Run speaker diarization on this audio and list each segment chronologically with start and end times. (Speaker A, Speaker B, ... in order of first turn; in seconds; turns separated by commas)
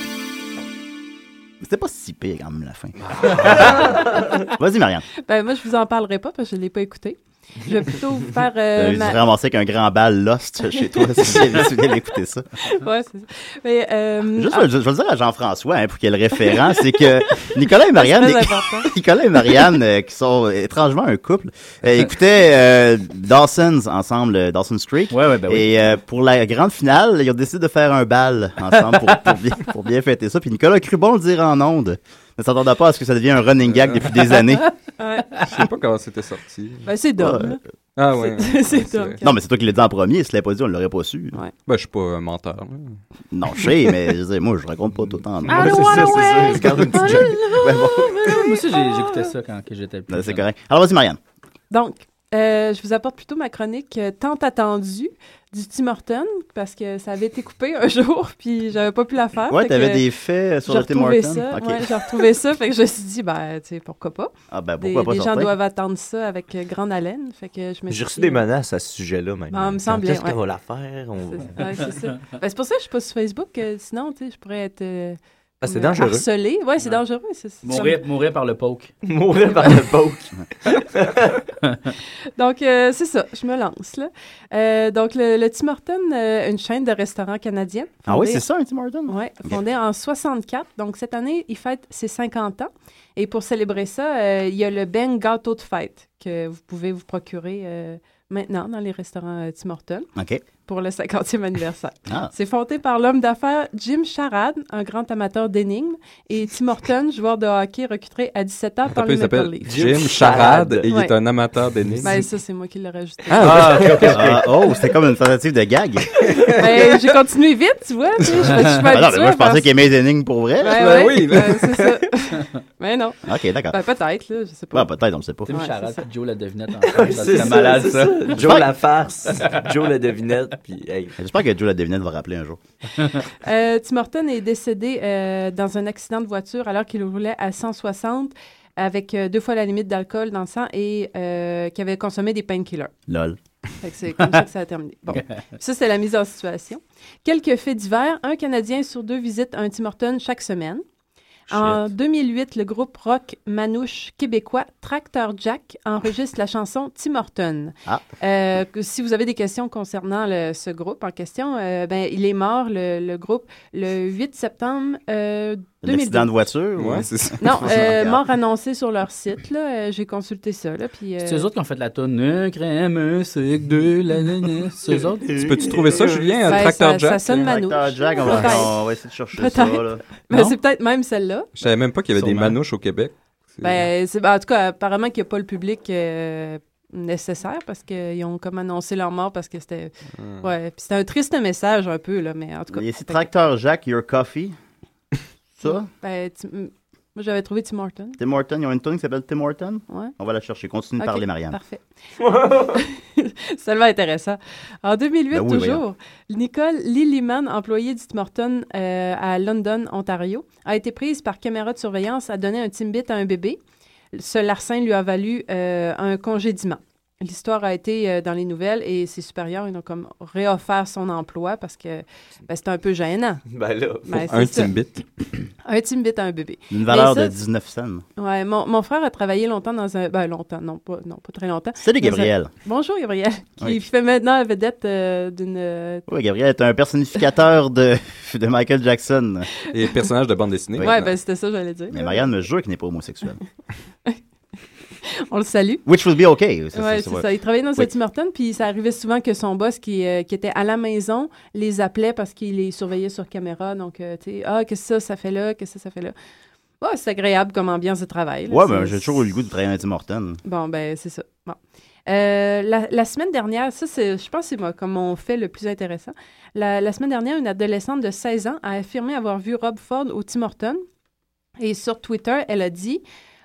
Speaker A: 1.6-5.0, Speaker B: 5.2-9.2, Speaker A: 8.8-12.5, Speaker B: 12.7-14.7, Speaker A: 14.3-34.6, Speaker B: 16.4-18.9, Speaker C: 25.1-25.8, Speaker B: 35.0-35.3, Speaker D: 35.4-36.9, Speaker B: 36.8-37.6, Speaker A: 37.2-37.6, Speaker D: 38.0-39.2, Speaker B: 38.1-39.4, Speaker A: 39.2-41.4, Speaker D: 41.7-43.0, Speaker A: 43.3-45.9, Speaker E: 45.5-47.4, Speaker B: 45.6-49.2, Speaker C: 45.6-47.4, Speaker A: 47.5-48.3, Speaker C: 48.2-50.4, Speaker A: 50.1-51.2, Speaker B: 51.7-60.0, Speaker A: 59.5-62.0, Speaker B: 60.7-68.4, Speaker A: 64.5-65.5, Speaker E: 67.9-71.6, Speaker B: 69.5-70.3, Speaker B: 71.3-78.0, Speaker E: 75.6-76.2, Speaker C: 77.6-78.9, Speaker E: 79.0-81.4, Speaker B: 82.3-88.4, Speaker A: 88.1-89.6, Speaker B: 89.1-100.1, Speaker A: 100.2-100.4, Speaker B: 100.6-109.7, Speaker D: 108.9-112.2, Speaker E: 109.7-110.9, Speaker B: 110.9-111.1, Speaker B: 112.0-113.9, Speaker D: 113.3-114.3, Speaker C: 113.4-114.4, Speaker A: 114.1-116.2, Speaker B: 116.4-119.7, Speaker A: 118.9-121.0, Speaker B: 120.6-124.9, Speaker D: 120.7-122.0, Speaker A: 123.2-123.8, Speaker A: 124.7-125.5, Speaker C: 125.5-128.3, Speaker B: 125.5-126.0, Speaker E: 126.8-131.1, Speaker A: 128.4-128.7, Speaker A: 131.2-132.6, Speaker B: 133.4-142.9, Speaker A: 143.1-143.4, Speaker B: 143.8-150.8, Speaker B: 151.5-166.3, Speaker A: 165.8-168.2, Speaker D: 166.8-167.4, Speaker B: 167.4-171.5, Speaker C: 171.2-175.3, Speaker E: 175.2-176.3, Speaker D: 175.3-177.4, Speaker B: 176.4-178.7, Speaker A: 177.3-180.0, Speaker B: 179.3-181.5, Speaker C: 180.3-180.6, Speaker D: 181.6-183.9, Speaker C: 182.1-182.6, Speaker B: 183.6-193.3, Speaker D: 190.2-190.5, Speaker A: 192.7-194.5, Speaker A: 195.6-195.9, Speaker B: 195.6-198.2, Speaker A: 198.2-201.6, Speaker B: 201.0-201.8, Speaker E: 202.2-202.8, Speaker B: 202.5-213.6, Speaker A: 205.3-205.8, Speaker B: 214.1-223.4, Speaker E: 223.5-224.2, Speaker B: 224.1-224.7, Speaker D: 224.3-225.0, Speaker B: 225.6-227.3, Speaker A: 226.7-228.0, Speaker B: 228.2-236.0, Speaker A: 231.8-232.5, Speaker A: 236.1-239.5, Speaker D: 239.7-241.1, Speaker B: 240.8-242.2, Speaker A: 241.9-243.4, Speaker B: 245.0-245.8, Speaker A: 245.8-247.9, Speaker B: 246.7-256.1, Speaker B: 256.8-259.1, Speaker A: 258.5-260.4, Speaker B: 260.4-270.8, Speaker B: 271.6-273.0